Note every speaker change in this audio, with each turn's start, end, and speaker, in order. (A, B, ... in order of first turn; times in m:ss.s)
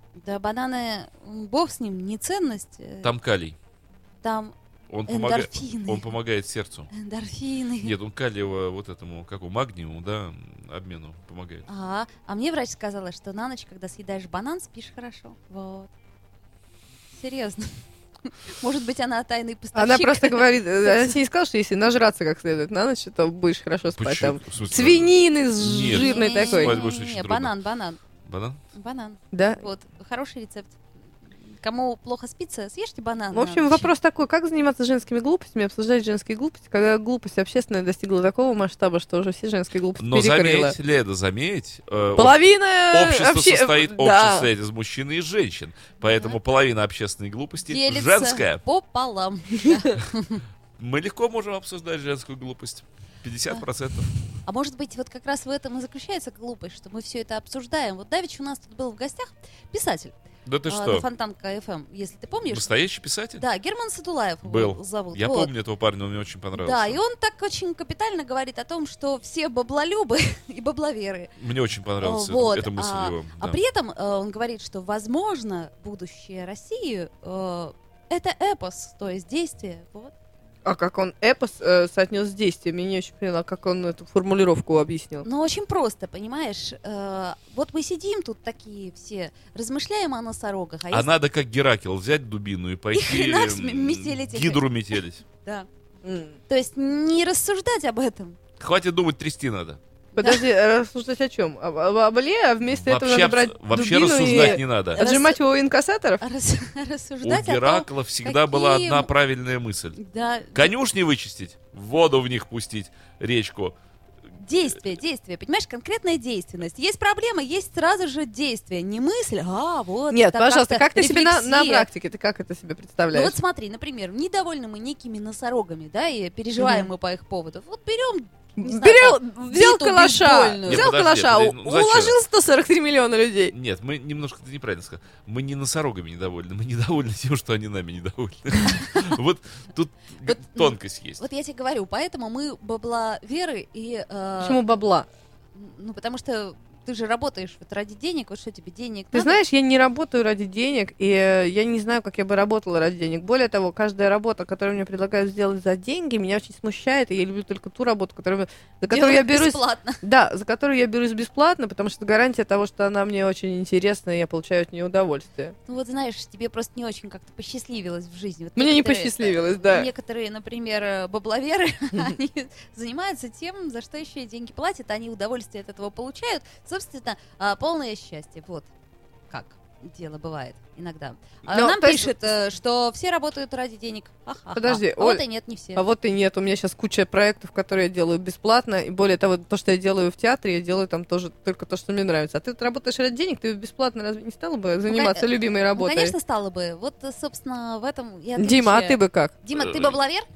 0:00.2-0:03.1 A
0:03.0-0:03.6 B
0:04.2-0:04.5 A
0:04.9-0:06.9 B
0:05.1-0:06.2 A
0:06.9-0:08.0 A
0:07.8-0:11.6 B
0:11.7-0:15.9 A
0:17.1-0:21.2 A
0:19.7-0:26.8 C
0:23.9-0:27.5 B
0:25.8-0:28.0 A
0:28.2-0:28.6 B
0:28.7-0:30.8 A
0:29.3-0:29.6 C
0:31.5-0:33.9 A
0:33.3-0:40.8 C
0:40.0-0:42.4 B
0:42.2-0:44.5 C
0:42.9-0:48.6 B
0:46.0-0:46.4 A
0:47.6-0:50.4 A
0:50.8-0:54.1 B
0:54.4-1:02.7 A
1:00.4-1:01.0 B
1:02.5-1:03.4 B
1:03.4-1:05.5 A
1:04.4-1:07.0 B
1:06.5-1:11.3 A
1:11.4-1:13.6 B
1:12.0-1:20.1 A
1:20.6-1:25.2 C
1:25.2-1:31.1 A
1:30.9-1:35.2 B
1:32.9-1:34.7 A
1:35.3-1:35.7 A
1:36.0-1:36.4 C
1:36.5-1:38.4 A
1:38.6-1:39.8 B
1:40.1-1:46.2 C
1:40.2-1:40.4 A
1:42.7-1:45.0 B
1:44.3-1:45.4 A
1:46.2-1:49.1 A
1:47.2-1:50.0 B
1:50.0-1:50.7 A
1:50.5-1:53.8 B
1:54.4-2:01.9 A
2:00.1-2:03.4 C
2:03.1-2:10.9 A
2:06.6-2:06.9 C
2:08.6-2:13.5 C
2:10.6-2:12.2 B
2:13.5-2:21.2 B
2:18.8-2:19.1 A
2:20.2-2:24.6 A
2:24.4-2:25.1 C
2:25.5-2:29.4 A
2:29.1-2:45.5 C
2:38.9-2:40.0 A
2:45.7-2:58.7 A
2:48.6-2:49.9 C
2:59.3-3:05.8 A
3:01.5-3:02.2 C
3:04.5-3:05.2 C
3:05.7-3:16.1 C
3:14.9-3:20.3 A
3:18.4-3:19.3 C
3:19.5-3:20.0 B